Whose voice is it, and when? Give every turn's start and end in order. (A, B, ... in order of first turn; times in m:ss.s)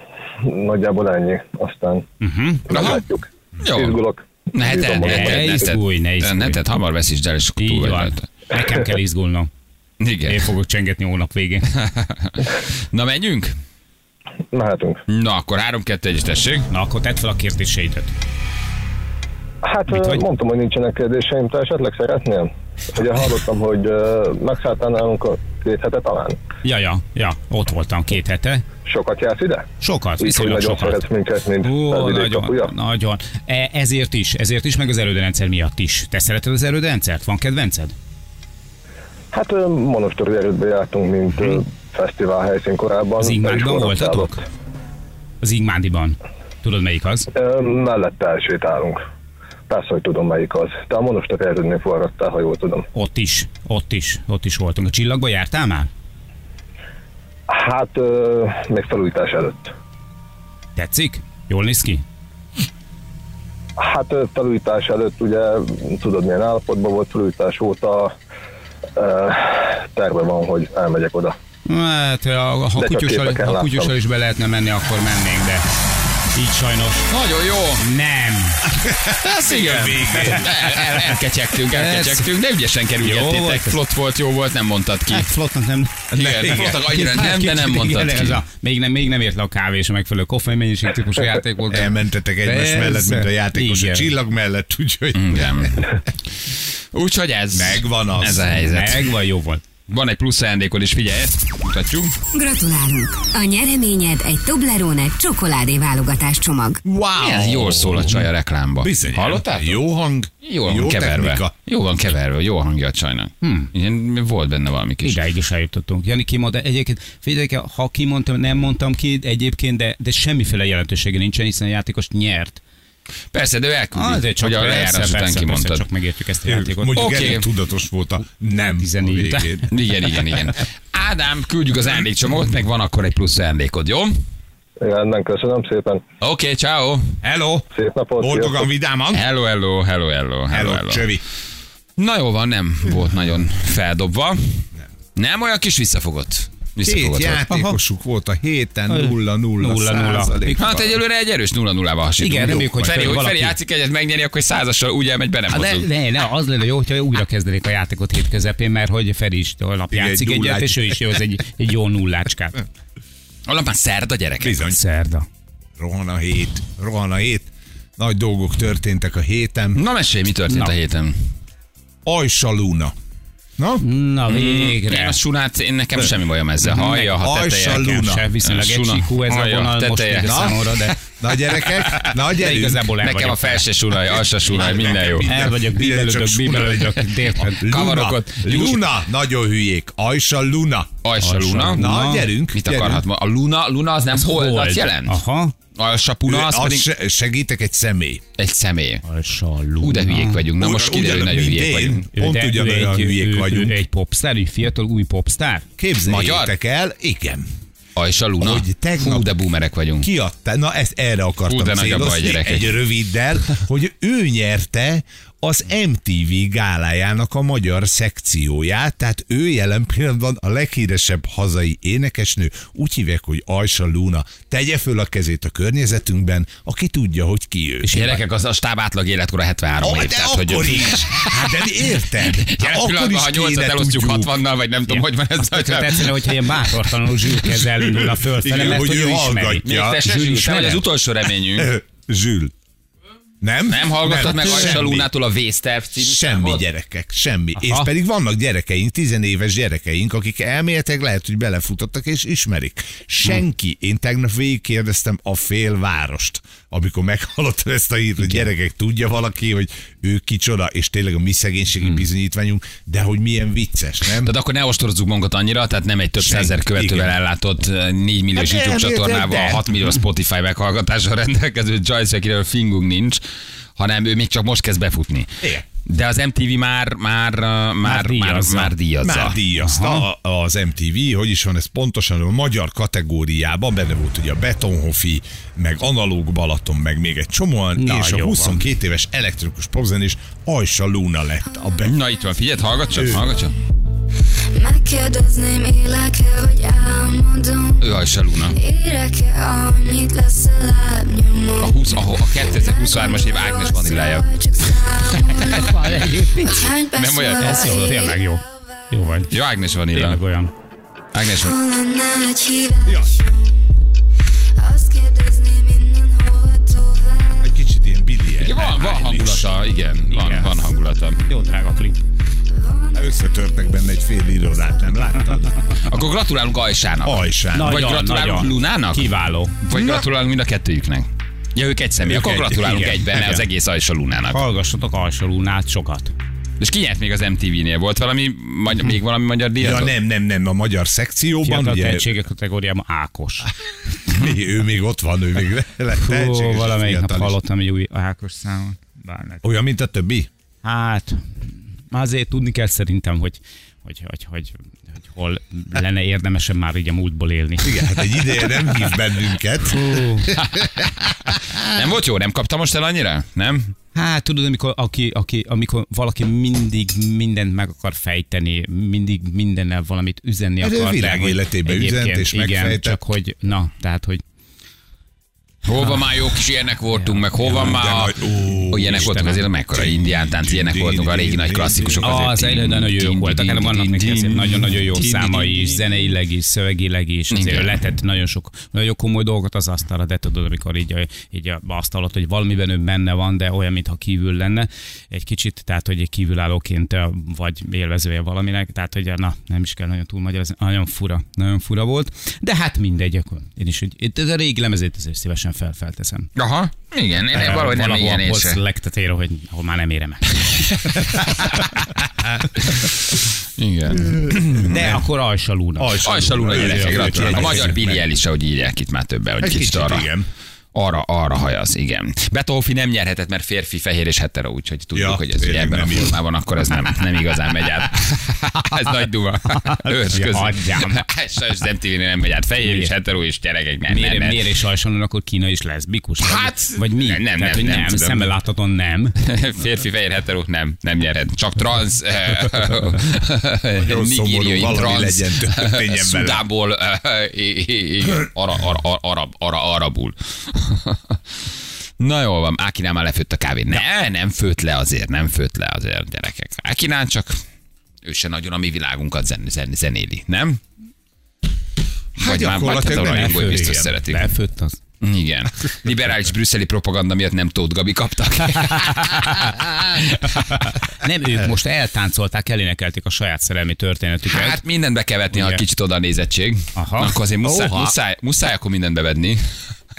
0:00.4-0:02.0 A
0:02.2-0:02.7 B
0:02.7-0:05.6 A
0:02.7-0:03.0 C
0:03.6-0:04.0 C
0:04.5-0:08.3 C
0:05.0-0:06.6 B
0:07.6-0:09.5 B
0:10.0-0:10.5 C
0:10.3-0:11.7 B
0:11.7-0:13.5 C
0:14.5-0:15.0 A
0:15.1-0:16.7 C
0:16.7-0:18.1 B
0:19.6-0:26.4 A
0:19.9-0:20.2 B
0:26.6-0:28.6 B
0:28.9-0:29.7 A
0:29.8-0:31.0 B
0:30.2-0:32.7 A
0:31.6-0:37.9 B
0:39.3-0:44.4 A
0:43.2-0:44.4 B
0:45.4-0:47.3 B
0:47.3-0:49.0 A
0:49.7-0:52.9 A
0:52.9-0:55.9 B
0:57.5-0:59.7 A
1:00.8-1:02.0 B
1:03.8-1:08.1 A
1:09.0-1:11.4 A
1:11.7-1:15.7 B
1:12.8-1:13.9 A
1:16.3-1:17.1 B
1:17.1-1:17.8 C
1:17.8-1:18.6 B
1:18.8-1:20.8 D
1:19.2-1:25.3 C
1:20.1-1:20.5 B
1:21.7-1:22.3 B
1:23.0-1:23.8 B
1:25.1-1:34.1 B
1:26.1-1:28.4 C
1:26.1-1:26.8 D
1:31.7-1:35.8 D
1:35.1-1:35.8 C
1:36.9-1:39.1 C
1:37.5-1:38.6 D
1:38.6-1:39.6 B
1:39.9-1:42.2 C
1:42.3-1:46.8 E
1:46.8-1:48.2 D
1:47.2-1:49.8 C
1:48.8-1:51.5 D
1:50.4-1:55.2 C
1:53.4-1:53.7 B
1:55.0-2:02.6 B
2:03.3-2:05.8 C
2:04.0-2:07.3 B
2:06.5-2:09.7 D
2:07.0-2:07.4 C
2:08.8-2:09.7 B
2:09.7-2:14.2 C
2:14.8-2:16.0 A
2:16.2-2:17.2 C
2:17.2-2:17.7 D
2:17.7-2:18.7 A
2:18.2-2:19.2 D
2:19.1-2:21.2 C
2:20.5-2:21.2 D
2:22.0-2:27.4 C
2:26.8-2:31.0 D
2:27.5-2:27.8 B
2:28.9-2:30.6 B
2:30.6-2:35.9 C
2:32.2-2:33.6 B
2:35.5-2:42.6 B
2:39.9-2:41.1 D
2:43.5-2:44.6 C
2:44.4-2:44.8 D
2:44.7-2:45.3 B
2:45.8-2:49.8 D
2:49.8-2:51.2 C
2:52.0-2:52.9 D
2:53.6-2:53.8 D
2:53.8-2:55.2 B
2:54.3-3:00.6 C
2:56.7-2:57.1 B
2:57.1-2:58.3 D
2:57.8-3:01.0 B
3:00.2-3:02.9 D
3:01.8-3:02.1 C
3:02.3-3:03.8 B
3:03.0-3:05.3 C
3:04.5-3:10.9 D
3:05.2-3:07.6 B
3:07.6-3:08.9 C
3:11.0-3:11.8 C
3:11.2-3:12.3 B
3:11.7-3:13.0 D
3:12.5-3:15.2 C
3:14.2-3:15.5 B
3:15.8-3:16.9 C
3:16.3-3:18.2 D
3:18.4-3:19.0 C
3:19.0-3:20.4 B
3:19.8-3:22.0 C
3:20.6-3:23.8 D
3:22.2-3:25.7 B
3:25.8-3:27.5 D
3:26.1-3:26.5 C
3:28.0-3:30.1 C
3:28.4-3:29.3 D
3:30.0-3:47.9 D
3:31.5-3:32.8 C
3:47.8-3:48.2 B
3:47.9-3:56.3 C
3:49.8-3:54.4 D
3:54.9-4:00.8 B
3:57.9-4:00.5 D
3:59.6-4:01.8 C
4:01.5-4:02.5 D
4:03.4-4:05.1 D
4:03.7-4:06.6 C
4:06.0-4:24.3 D
4:07.6-4:07.9 B
4:24.2-4:33.2 C
4:26.2-4:27.2 D
4:28.4-4:29.7 D
4:33.8-4:39.4 C
4:37.8-4:38.7 B
4:39.0-4:52.0 D
4:39.6-4:40.1 B
4:47.8-4:48.7 B
4:51.5-4:52.0 F
4:51.8-4:53.6 C
4:52.9-4:53.4 D
4:54.5-5:09.3 F
4:57.8-4:58.6 C
5:01.6-5:04.7 C
5:05.2-5:05.6 C
5:05.5-5:06.7 B
5:06.9-5:07.8 C
5:07.4-5:09.3 B
5:09.3-5:10.2 C
5:09.9-5:10.5 B
5:11.1-5:11.6 C
5:11.3-5:13.4 F
5:12.9-5:13.1 D
5:14.6-5:17.6 F
5:17.4-5:19.5 D
5:18.4-5:21.2 C
5:20.1-5:20.6 B
5:21.3-5:22.0 B
5:22.5-5:25.2 F
5:22.9-5:25.6 D
5:25.8-5:29.1 C
5:27.0-5:27.8 D
5:27.5-5:29.7 B
5:29.7-5:34.4 C
5:32.0-5:33.4 D
5:34.3-5:36.1 B
5:36.6-5:39.9 C
5:39.6-5:42.1 D
5:41.4-5:43.5 B
5:44.0-5:47.4 D
5:46.0-5:49.4 B
5:49.4-5:50.3 D
5:50.6-5:58.0 B
5:57.6-6:01.6 D
5:59.7-6:00.3 B
6:00.4-6:03.7 C
6:04.0-6:14.2 B
6:10.6-6:13.0 D
6:15.6-6:25.8 C
6:15.8-6:16.1 B
6:16.9-6:18.0 B
6:17.5-6:22.3 D
6:18.8-6:19.4 B
6:22.0-6:46.3 B
6:27.3-6:27.8 C
6:46.4-6:48.6 C
6:47.3-6:51.2 B
6:53.6-6:54.9 C
6:54.0-6:55.0 D
6:54.6-6:57.8 B
6:55.8-6:58.0 D
6:56.0-7:00.1 C
6:59.4-7:00.3 D
7:00.7-7:14.5 C
7:05.0-7:06.2 D
7:10.1-7:11.0 B
7:12.6-7:12.9 B
7:13.9-7:19.2 B
7:16.2-7:18.3 C
7:19.2-7:31.2 C
7:23.8-7:26.4 D
7:32.0-7:37.4 C
7:38.0-7:40.6 C
7:42.2-7:44.3 C
7:42.2-7:44.0 D
7:43.0-7:44.8 B
7:45.0-7:50.4 C
7:49.1-7:49.5 B
7:50.3-7:54.6 B
7:54.3-7:59.4 C
7:55.3-7:55.6 B
7:56.8-7:57.2 B
7:57.4-7:57.9 D